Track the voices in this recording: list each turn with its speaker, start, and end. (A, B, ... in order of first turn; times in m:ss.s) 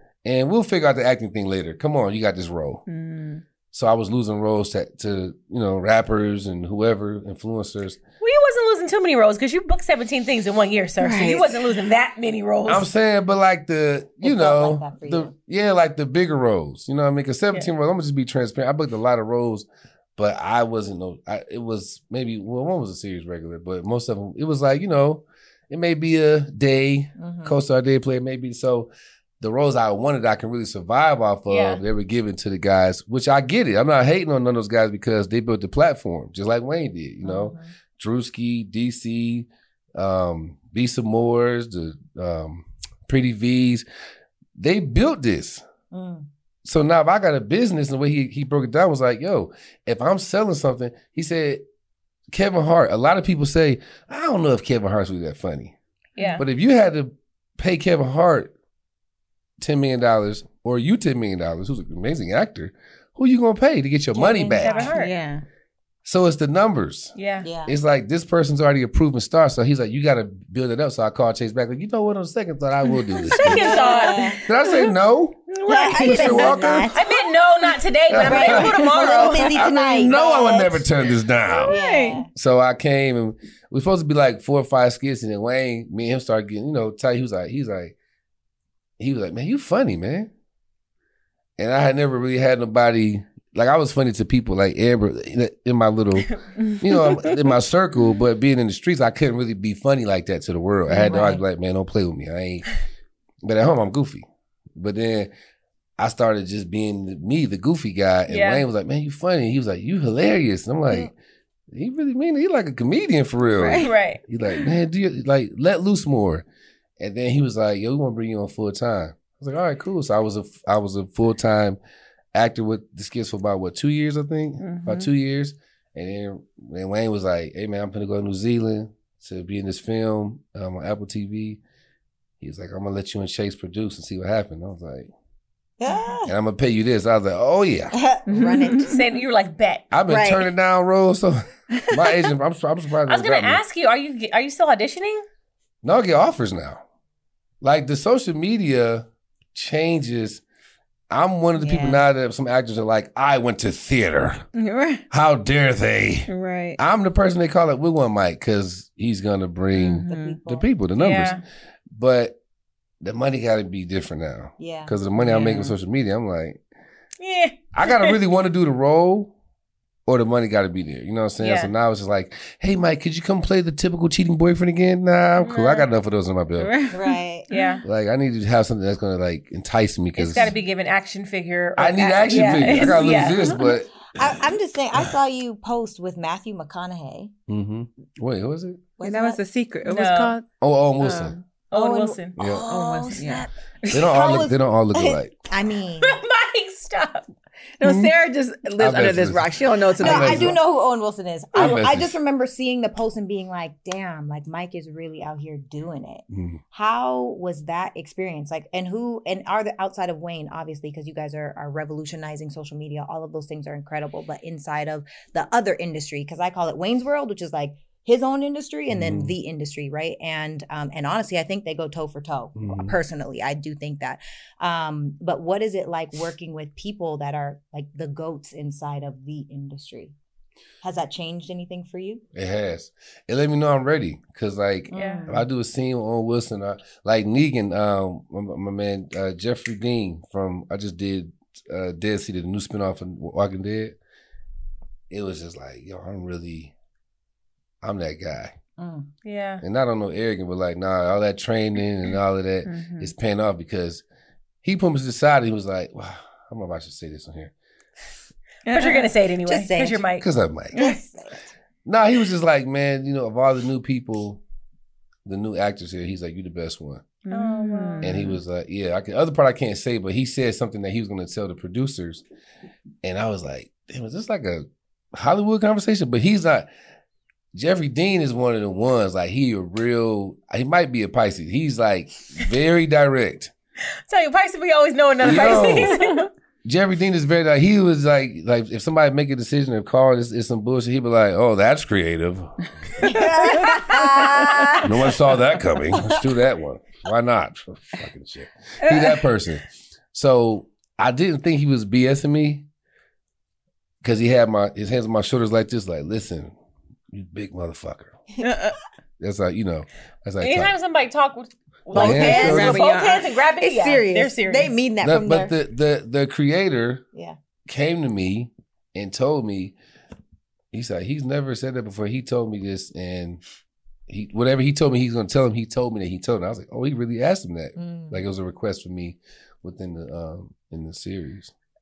0:00.2-0:02.8 A
0:02.9-0:03.4 B
0:03.7-0:08.0 A
0:08.2-0:12.9 C
0:11.0-0:11.7 B
0:12.7-0:43.8 A
0:14.2-0:15.3 D
0:27.2-0:27.6 D
0:31.5-0:31.8 C
0:37.2-0:37.7 D
0:44.6-0:45.6 A
0:45.9-0:46.3 D
0:46.6-0:51.6 A
0:52.3-0:55.8 A
0:56.2-0:56.4 C
0:56.4-0:58.5 A
0:59.6-1:04.9 A
1:04.2-1:05.1 C
1:04.6-1:05.4 B
1:06.0-1:07.1 A
1:07.2-1:07.5 C
1:07.4-1:07.7 D
1:07.7-1:13.9 A
1:13.2-1:14.1 B
1:13.3-1:14.4 C
1:13.4-1:14.4 D
1:14.4-1:17.0 A
1:15.6-1:16.9 B
1:15.7-1:17.0 D
1:16.9-1:19.7 C
1:18.1-1:21.8 A
1:18.2-1:20.9 D
1:21.5-1:22.2 B
1:21.7-1:22.3 D
1:22.3-1:28.0 A
1:29.0-1:30.3 A
1:31.6-1:42.7 A
1:40.9-1:41.4 D
1:43.4-1:45.3 A
1:46.0-1:51.1 A
1:48.3-1:48.7 C
1:51.7-1:56.4 A
1:53.6-1:53.9 B
1:53.8-1:54.2 C
1:57.0-2:01.8 A
2:02.3-2:11.6 A
2:12.4-2:15.1 A
2:15.8-2:16.3 D
2:15.9-2:16.2 B
2:16.3-2:18.0 A
2:17.9-2:19.0 D
2:18.3-2:19.0 B
2:18.8-2:19.9 C
2:19.9-2:23.6 A
2:20.1-2:20.5 D
2:23.1-2:25.2 C
2:25.8-2:26.8 A
2:27.6-2:30.4 A
2:31.1-2:34.5 A
2:31.6-2:32.0 B
2:34.6-2:35.0 B
2:35.1-2:41.4 A
2:36.3-2:36.8 B
2:39.7-2:40.4 B
2:40.1-2:40.7 D
2:41.0-2:41.4 C
2:42.0-2:42.4 A
2:43.0-2:46.6 A
2:44.6-2:44.9 D
2:45.2-2:45.7 B
2:47.2-2:48.2 C
2:47.7-2:49.3 A
2:50.1-2:56.7 A
2:51.4-2:51.7 C
2:55.4-2:55.9 C
2:56.6-2:57.8 B
2:56.9-2:57.5 D
2:57.5-2:57.8 C
2:57.8-3:00.5 A
3:00.2-3:03.5 C
3:01.8-3:04.3 A
3:02.3-3:03.3 D
3:04.1-3:07.3 D
3:07.5-3:08.8 A
3:09.0-3:09.4 D
3:09.0-3:10.4 B
3:09.8-3:10.4 C
3:10.6-3:11.4 A
3:11.0-3:11.4 B
3:11.7-3:12.4 C
3:11.7-3:16.2 D
3:12.4-3:12.7 A
3:12.6-3:14.0 B
3:13.9-3:15.3 A
3:16.0-3:17.3 C
3:17.8-3:20.6 B
3:17.8-3:18.1 A
3:18.8-3:20.6 A
3:20.0-3:50.2 D
3:21.5-3:22.2 A
3:26.3-3:26.6 A
3:38.9-3:39.4 A
3:42.6-3:43.0 A
3:50.8-3:52.2 D
3:52.3-4:04.0 A
3:54.9-3:55.4 D
3:54.9-3:55.3 C
4:05.1-4:06.7 A
4:07.8-4:08.6 A
4:08.8-4:09.1 D
4:09.2-4:09.6 C
4:09.6-4:14.0 A
4:12.7-4:13.0 C
4:14.6-4:17.5 A
4:18.7-4:19.1 B
4:18.7-4:20.2 C
4:19.5-4:20.0 D
4:20.2-4:20.8 A
4:20.7-4:21.3 D
4:21.8-4:24.4 A
4:25.3-4:27.1 A
4:27.3-4:28.4 B
4:27.3-4:28.1 C
4:28.0-4:32.2 A
4:33.0-4:36.7 A
4:37.5-4:43.5 A
4:44.1-4:46.3 C
4:45.2-4:46.0 A
4:46.6-4:53.2 A
4:53.0-4:54.9 D
4:53.1-4:54.7 B
4:54.8-5:02.7 A
4:58.8-4:59.3 B
5:04.0-5:06.5 A
5:07.1-5:08.2 A
5:08.4-5:08.8 B
5:09.2-5:10.7 A
5:10.4-5:14.7 C
5:11.9-5:12.8 A
5:11.9-5:12.9 D
5:12.0-5:13.3 B
5:13.6-5:15.5 D
5:15.0-5:17.0 A
5:17.7-5:19.8 A
5:20.7-5:23.4 A
5:24.1-5:31.5 A
5:27.8-5:28.2 D